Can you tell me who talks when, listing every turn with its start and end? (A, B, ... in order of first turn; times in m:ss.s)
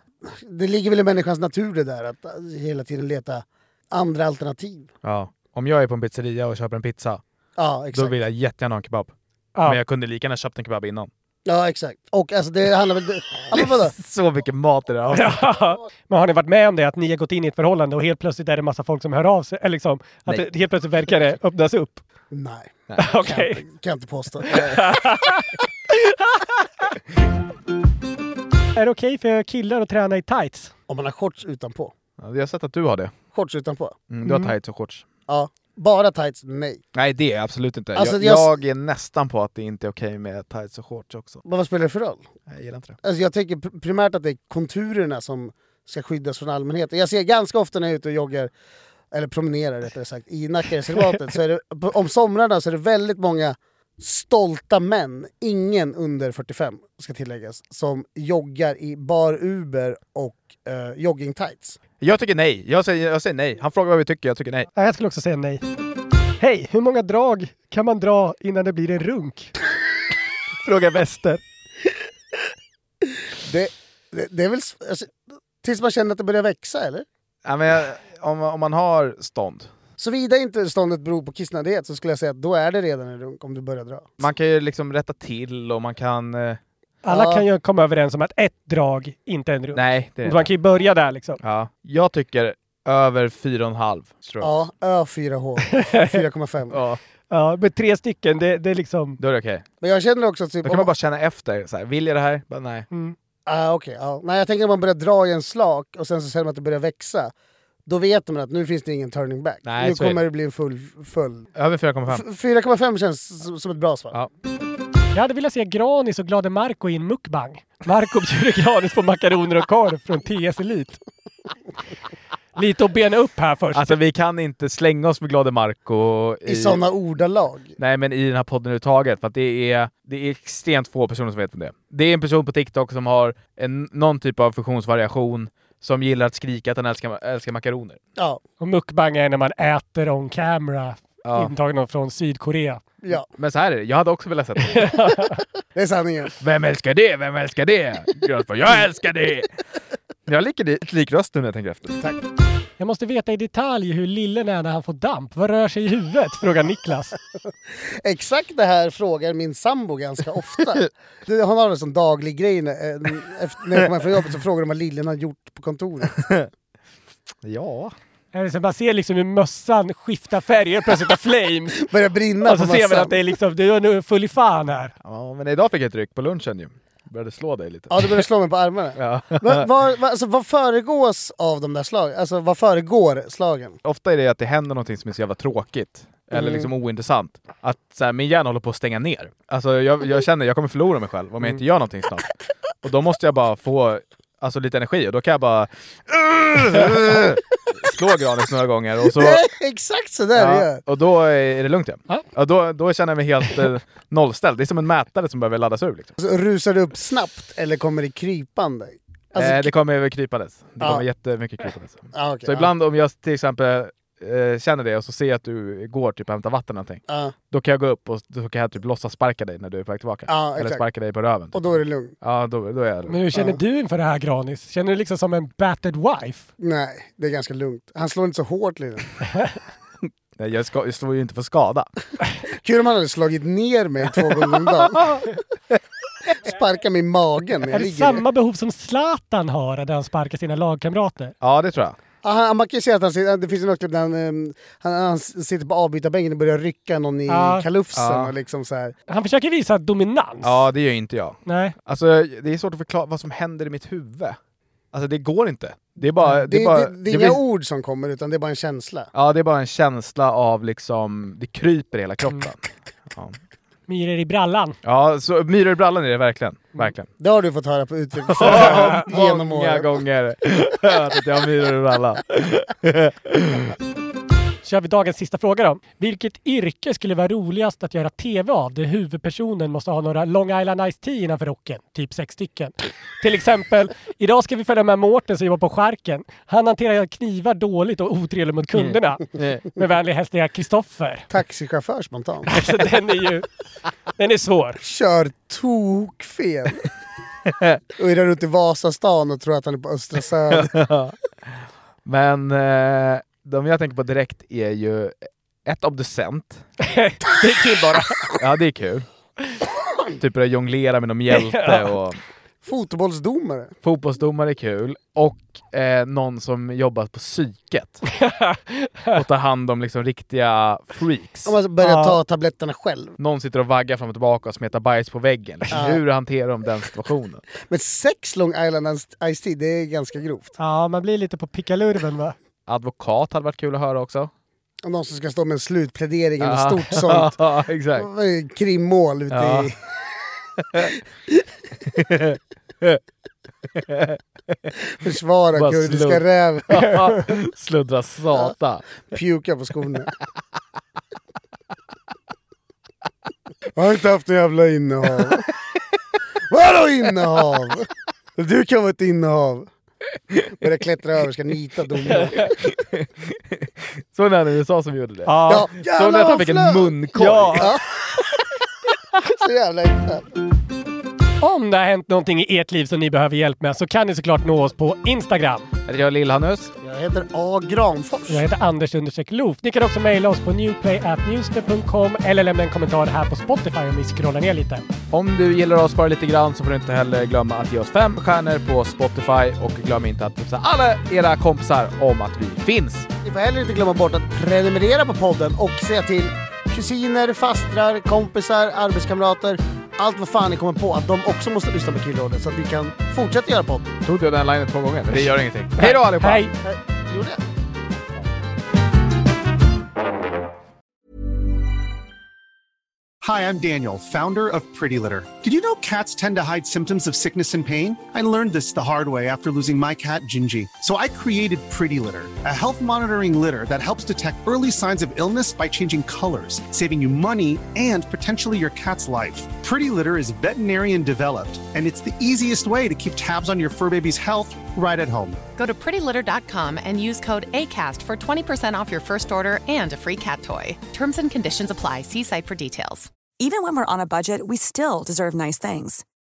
0:00.2-0:04.9 A
0:05.0-0:07.2 B
0:07.6-0:08.2 A
0:07.9-0:09.1 B
0:09.6-0:11.1 B
0:11.4-0:13.9 A
0:13.5-0:15.5 B
0:15.1-0:22.0 C
0:22.3-0:24.8 A
0:23.0-0:23.6 C
0:24.4-0:26.4 C
0:28.8-0:30.7 C
0:30.9-0:31.9 A
0:32.2-0:33.1 B
0:33.3-0:34.0 A
0:34.1-0:35.0 B
0:34.2-0:34.5 C
0:35.3-0:36.8 A
0:36.9-0:41.4 B
0:38.0-0:38.5 A
0:41.4-0:42.3 A
0:42.5-0:43.0 B
0:43.0-0:48.5 A
0:49.1-1:01.8 A
1:02.0-1:04.7 B
1:04.7-1:05.6 C
1:06.4-1:09.5 C
1:10.6-1:11.4 C
1:13.4-1:17.0 A
1:17.4-1:19.7 B
1:20.0-1:24.1 A
1:24.2-1:26.6 B
1:27.0-1:31.4 C
1:27.1-1:27.4 A
1:29.7-1:30.5 B
1:31.4-1:34.6 B
1:34.4-1:36.8 A
1:35.7-1:36.2 C
1:36.7-1:37.0 B
1:37.3-1:39.2 C
1:39.2-1:39.6 B
1:39.8-1:40.9 A
1:40.6-1:42.8 B
1:43.4-1:47.3 A
1:47.8-1:51.5 A
1:49.6-1:50.2 B
1:51.6-1:52.2 B
1:52.1-1:54.2 A
1:55.1-2:01.0 C
2:02.6-2:04.0 C
2:03.7-2:06.8 B
2:06.4-2:07.8 A
2:07.8-2:18.0 B
2:18.2-2:18.4 A
2:18.6-2:22.8 C
2:21.2-2:21.5 B
2:23.3-2:24.9 B
2:24.7-2:25.4 C
2:25.7-2:26.3 A
2:26.4-2:29.5 B
2:30.3-2:32.0 B
2:32.8-2:37.2 C
2:37.8-2:46.2 A
2:47.4-2:47.9 B
2:48.3-2:51.8 C
2:51.7-2:53.1 A
2:52.4-2:54.9 C
2:55.0-2:58.2 B
2:57.9-3:03.8 A
2:59.0-2:59.7 B
3:03.8-3:12.3 B
3:06.3-3:06.6 A
3:12.8-3:19.4 B
3:19.0-3:20.8 A
3:20.4-3:26.1 B
3:26.2-3:29.7 A
3:29.4-3:43.2 B
3:32.1-3:32.7 A
3:37.1-3:37.3 A
3:40.3-3:40.8 A
3:41.5-3:42.1 A
3:43.1-3:46.5 C
3:46.6-3:49.1 A
3:50.4-3:51.9 B
3:52.5-3:55.2 A
3:56.3-3:58.2 A
3:57.7-4:01.3 C
4:01.4-4:02.0 B
4:02.2-4:08.9 A
4:07.3-4:07.6 C
4:07.9-4:08.3 B
4:09.1-4:10.6 C
4:10.4-4:14.4 B
4:11.4-4:11.7 C
4:14.9-4:17.4 B
4:16.3-4:19.1 A
4:19.1-4:23.4 B
4:23.9-4:24.8 C
4:24.8-4:27.1 B
4:27.2-4:29.9 A
4:28.3-4:33.7 B
4:34.6-4:51.3 C
4:48.7-4:49.6 B
4:51.3-4:52.5 A
4:52.5-4:53.4 C
4:54.2-4:54.8 C
4:54.8-4:56.8 A
4:58.0-5:00.7 A
5:00.5-5:01.1 B
5:02.0-5:05.1 B
5:05.6-5:06.6 B
5:06.8-5:08.2 C
5:08.3-5:09.0 B
5:10.2-5:12.2 B
5:11.3-5:11.9 C
5:12.6-5:13.7 A
5:13.8-5:18.0 B
5:18.2-5:19.2 C
5:19.1-5:21.5 B
5:21.4-5:23.2 A
5:21.8-5:22.2 C
5:23.2-5:27.4 B
5:25.7-5:26.0 A
5:27.6-5:30.5 A
5:30.6-5:32.3 C
5:32.7-5:34.3 B
5:34.8-5:37.4 A
5:36.4-5:38.1 B
5:38.0-5:39.8 A
5:39.3-5:39.7 B
5:41.9-5:43.0 B
5:43.8-5:44.2 B
5:44.9-5:46.9 A
5:45.6-5:49.0 B
5:46.8-5:47.2 C
5:48.3-5:50.1 A
5:53.7-5:55.5 A
5:56.5-5:59.7 A
6:00.5-6:02.4 A
6:02.1-6:02.5 C
6:02.6-6:07.7 B
6:05.2-6:05.7 C
6:05.4-6:06.9 A
6:07.1-6:07.7 C
6:07.5-6:08.0 A
6:09.2-6:10.3 A
6:11.4-6:15.7 C
6:15.8-6:16.7 B
6:16.8-6:18.4 A
6:18.3-6:24.8 C
6:25.1-6:33.1 B
6:33.2-6:44.0 A
6:44.0-6:46.5 B
6:45.8-6:46.5 C
6:46.6-6:47.4 A
6:53.2-7:15.4 D
7:15.6-7:23.1 E
7:23.4-7:26.0 F